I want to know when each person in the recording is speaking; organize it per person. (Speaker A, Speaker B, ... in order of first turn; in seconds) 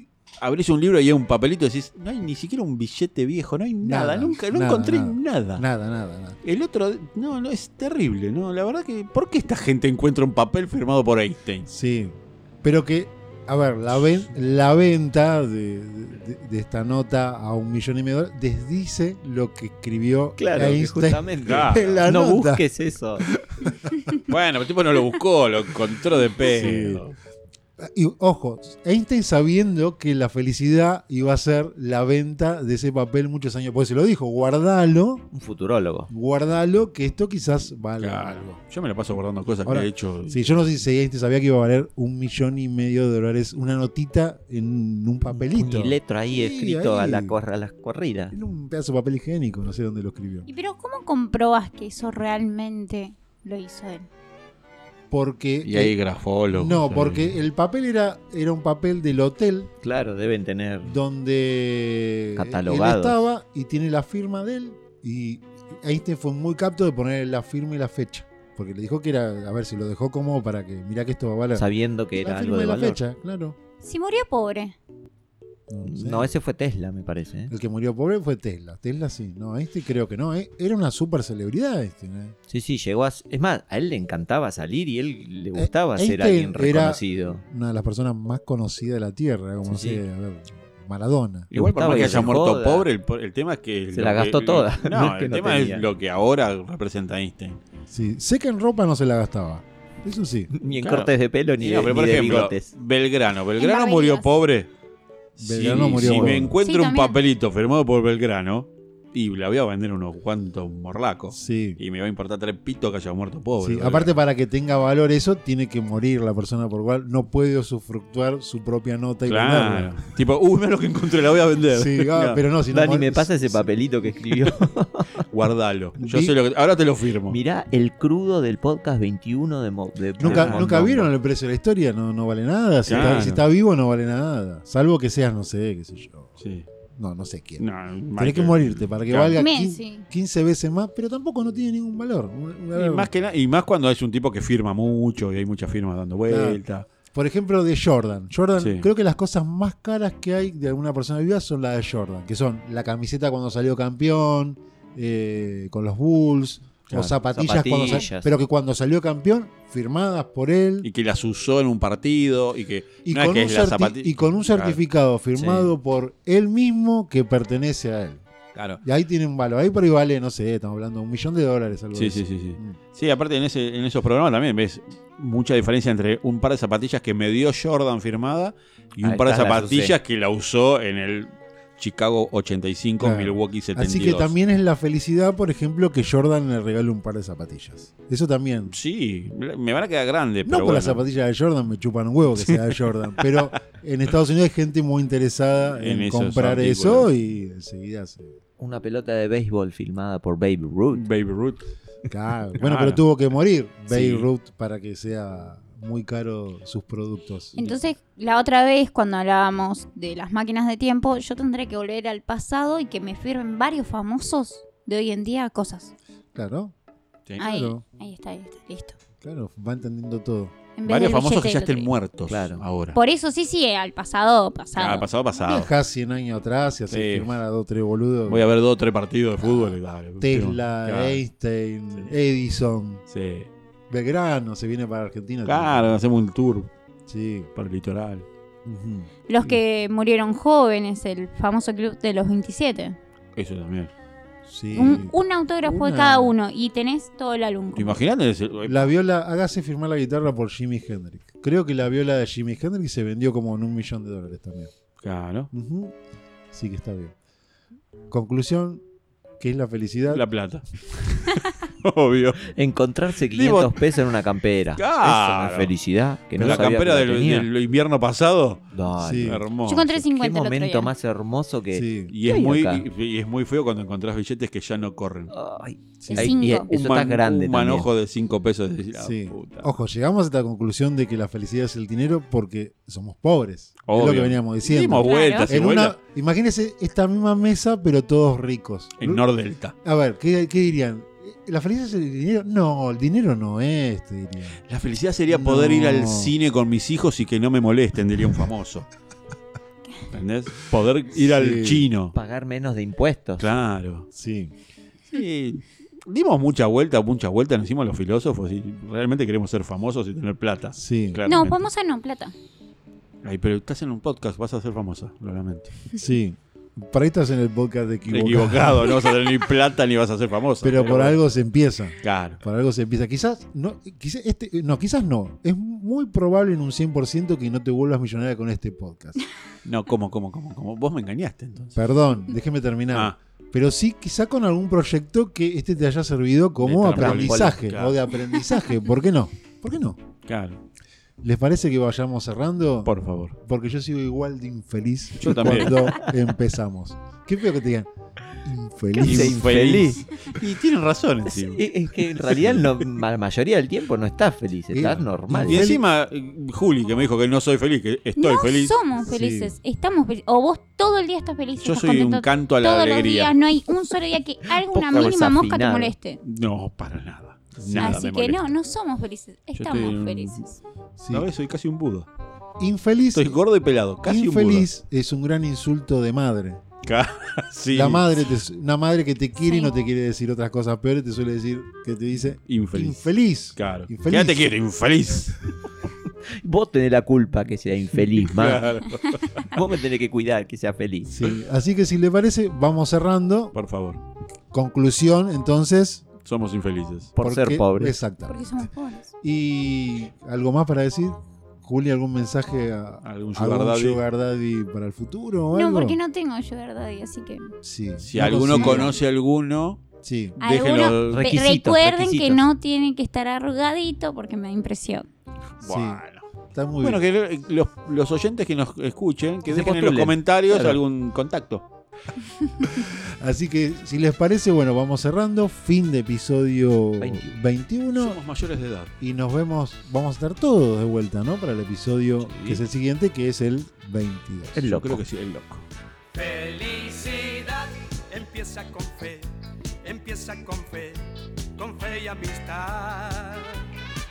Speaker A: 0.4-5.6, 6.4-11.7, 21.4-22.1, 24.1-27.1, 38.0-40.5, 55.6-57.4, 91.5-97.6, 100.7-104.7, 105.4-114.1, 119.2-122.4, 125.3-127.4, 130.2-130.7, 132.8-133.4, 136.4-136.7, 137.6-139.4, 142.7-146.9, 148.6-148.9, 160.8-164.8, 165.3-165.7, 168.5-168.8, 171.9-184.3, 188.7-191.0, 195.8-197.1, 200.9-201.6, 202.6-203.0, 203.9-204.3, 220.8-223.0, 224.8-225.7, 226.9-227.3, 228.3-231.2, 233.1-233.5, 235.4-236.7, 237.6-238.2, 243.3-243.9, 247.7-248.9, 255.0-255.5, 260.1-262.5, 263.3-263.9, 264.8-265.7, 266.3-269.9, 272.1-275.3, 276.4-279.7, 283.8-286.0, 289.0-289.7, 294.7-298.9, 300.1-302.1, 303.4-304.1, 305.1-311.7, 313.2-315.8, 318.1-321.2, 322.0-322.4, 329.6-331.8, 336.6-338.0, 340.2-340.6, 342.8-343.3, 345.2-346.1, 349.0-352.8, 355.4-358.7, 361.6-363.4, 366.2-368.5, 369.6-370.4, 371.1-372.1, 373.1-374.7, 376.8-378.2, 382.5-385.5, 388.1-389.5, 393.5-394.0, 396.2-397.1, 403.0-404.0, 408.0-409.8, 410.4-411.4, 415.6-416.2, 416.8-421.6, 427.9-428.9, 432.2-432.6, 434.5-435.6
Speaker B: 3.8-6.4, 11.7-22.6, 23.6-23.9, 26.4-27.0, 27.8-35.3, 36.1-38.6, 39.6-47.4, 48.3-50.5, 55.1-56.0, 56.5-59.7, 60.8-73.5, 75.7-76.3, 77.5-82.3, 85.5-91.5, 97.9-100.5, 105.4-106.6, 111.3-111.8, 113.6-119.9, 121.7-123.6, 126.0-126.3, 130.2-136.3, 136.9-137.6, 138.2-143.1, 146.3-160.9, 163.0-168.2, 168.8-172.8, 183.0-188.7, 190.4-198.3, 202.1-207.7, 216.3-216.7, 217.4-217.8, 219.2-220.5, 225.4-228.5, 229.4-233.0, 233.9-235.9, 237.1-237.5, 238.6-239.1, 244.4-246.3, 248.7-254.7, 255.5-255.9, 256.5-257.1, 258.1-258.8, 259.4-260.2, 268.9-269.4, 271.7-272.1, 276.0-276.3, 278.9-289.2, 289.8-294.6, 295.3-296.4, 301.2-301.9, 304.1-304.5, 310.7-311.2, 316.0-318.9, 320.6-329.2, 331.7-340.0, 341.2-347.9, 348.4-349.9, 354.7-355.8, 359.0-359.5, 367.6-368.1, 371.0-371.3, 372.6-373.4, 374.0-376.6, 377.7-384.6, 391.1-393.5, 394.5-396.1, 397.2-398.7, 399.2-406.0, 407.6-408.9, 410.0-410.4, 415.6-417.0, 422.6-428.2, 429.0-434.7
Speaker C: 20.4-23.3, 35.3-36.1, 45.3-48.3, 59.8-61.0, 62.4-63.2, 71.5-73.0, 75.8-77.5, 82.5-87.4, 89.7-90.0, 91.5-92.9, 93.9-95.9, 100.5-102.7, 106.0-106.3, 122.7-125.2, 127.3-131.1, 132.9-133.2, 157.3-158.3, 179.0-179.9, 198.6-201.0, 222.3-222.6, 262.5-267.5, 268.7-272.8, 275.3-277.9, 302.1-303.5, 336.9-337.6, 349.0-350.0, 351.4-355.8, 364.6-365.9, 386.3-388.7, 389.4-391.1, 397.1-397.9, 411.1-412.5, 419.5-420.8, 427.0-427.4, 434.6-435.0
Speaker D: 50.5-54.1, 73.8-74.8, 103.5-104.3, 106.6-107.2, 139.4-140.1, 207.5-215.9, 217.4-219.0, 220.8-221.9, 222.9-225.1, 239.3-243.0, 244.7-248.0, 269.6-270.9, 276.1-276.7, 285.0-285.5, 311.2-312.3, 358.2-366.2, 367.8-370.6, 379.4-379.7, 398.3-399.1, 405.5-407.5, 408.5-409.0, 410.4-415.1
Speaker E: 436.1-439.3, 439.8-441.0, 441.6-443.6